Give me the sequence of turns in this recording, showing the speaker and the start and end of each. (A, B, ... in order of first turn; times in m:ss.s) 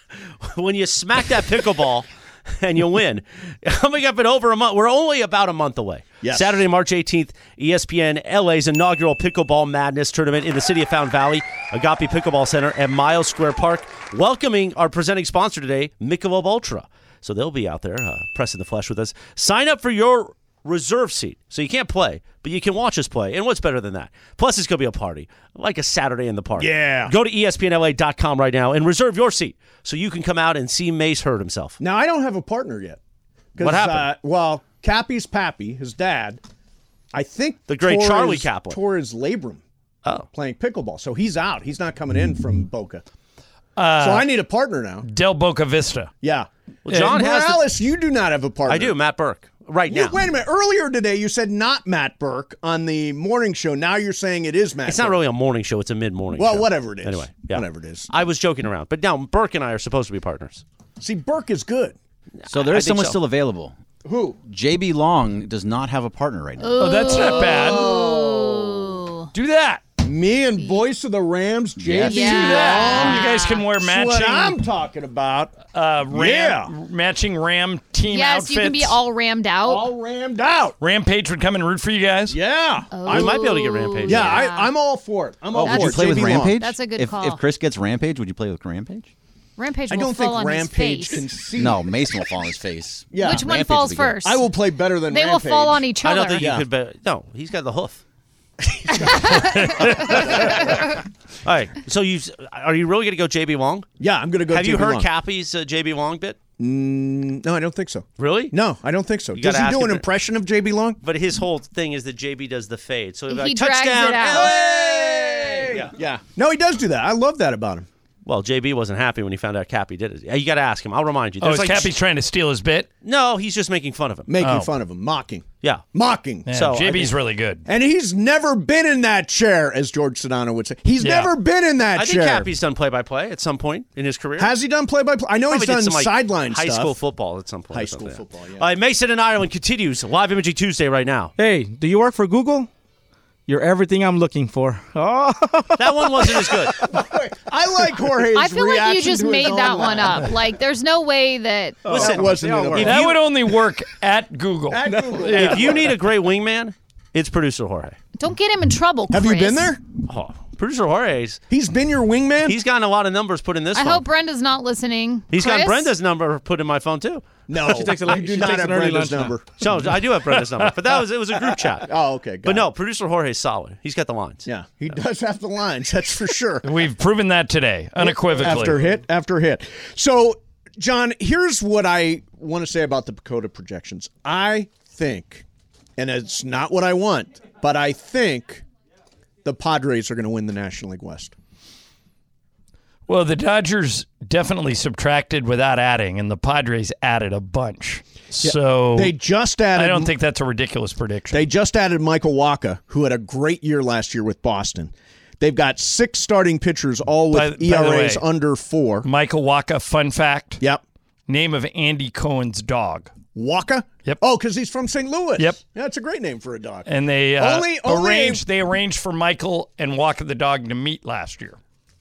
0:00.4-0:31.8 A
0:06.2-0:06.6 B
0:26.6-0:27.1 B
0:31.8-0:33.0 B
0:33.6-0:36.4 B
0:33.6-0:34.1 A
0:37.1-0:39.6 B
0:37.7-0:38.8 A
0:40.3-0:43.0 B
0:43.8-0:44.3 C
0:44.0-0:45.0 B
0:45.0-0:46.1 C
0:46.2-0:49.0 B
0:46.8-0:47.7 A
0:48.7-0:50.2 A
0:49.9-0:55.2 B
0:54.8-1:00.6 A
0:56.4-0:58.1 B
1:01.0-1:02.0 B
1:02.4-1:03.2 A
1:02.5-1:03.8 D
1:04.0-1:04.4 B
1:04.4-1:06.8 D
1:06.6-1:09.3 E
1:06.8-1:07.8 C
1:07.1-1:09.0 B
1:09.3-1:09.8 C
1:10.0-1:15.6 B
1:12.0-1:13.6 E
1:12.0-1:14.6 C
1:15.7-1:19.0 C
1:16.1-1:16.7 B
1:18.1-1:19.9 E
1:19.6-1:20.8 B
1:20.8-1:22.4 C
1:22.3-1:23.4 B
1:22.9-1:24.7 E
1:23.1-1:24.4 A
1:24.0-1:26.6 B
1:25.5-1:29.1 D
1:25.6-1:27.4 E
1:29.6-1:31.3 E
1:29.9-1:31.9 B
1:31.6-1:34.2 D
1:33.1-1:33.6 B
1:33.2-1:34.4 E
1:34.2-1:35.9 B
1:35.1-1:36.5 E
1:36.0-1:38.0 A
1:36.4-1:36.6 B
1:38.6-1:40.6 B
1:39.1-1:40.1 E
1:39.2-1:40.8 A
1:40.6-1:41.0 E
1:41.4-1:43.9 A
1:44.0-1:45.1 B
1:44.5-1:46.4 A
1:46.6-1:51.0 B
1:48.2-1:48.5 A
1:49.3-1:50.0 A
1:51.0-1:55.9 A
1:53.3-1:54.5 E
1:54.2-1:57.9 B
1:58.2-2:01.9 A
2:01.4-2:02.9 C
2:03.0-2:04.3 A
2:04.3-2:06.5 B
2:04.4-2:04.7 C
2:06.5-2:07.6 C
2:06.5-2:07.1 A
2:07.7-2:12.5 B
2:11.0-2:11.3 C
2:11.9-2:14.5 A
2:14.4-2:17.0 B
2:15.5-2:21.3 A
2:17.7-2:18.7 B
2:21.4-2:22.7 F
2:23.5-2:27.0 F
2:25.8-2:26.8 A
2:26.9-2:30.4 B
2:28.3-2:32.3 E
2:31.8-2:33.0 A
2:31.9-2:33.3 B
2:32.0-2:32.8 F
2:32.8-2:35.5 C
2:34.7-2:35.9 B
2:34.9-2:35.5 F
2:35.2-2:38.0 A
2:38.2-2:39.7 E
2:39.1-2:39.8 B
2:40.0-2:41.4 A
2:41.5-2:42.6 B
2:42.4-2:44.0 A
2:43.7-2:45.9 E
2:45.3-2:47.2 A
2:47.5-2:49.4 B
2:47.5-2:49.4 F
2:49.6-2:51.9 A
2:51.8-2:52.7 B
2:52.4-2:54.4 A
2:54.4-2:56.6 B
2:56.6-2:58.8 C
2:58.0-3:05.4 B
3:06.0-3:08.6 B
3:09.4-3:11.3 B
3:13.1-3:19.1 C
3:18.4-3:20.1 B
3:19.7-3:21.4 C
3:21.3-3:29.0 B
3:27.3-3:28.2 C
3:29.0-3:30.6 C
3:31.3-3:33.1 C
3:33.3-3:36.9 B
3:36.8-3:41.6 C
3:37.4-3:38.4 B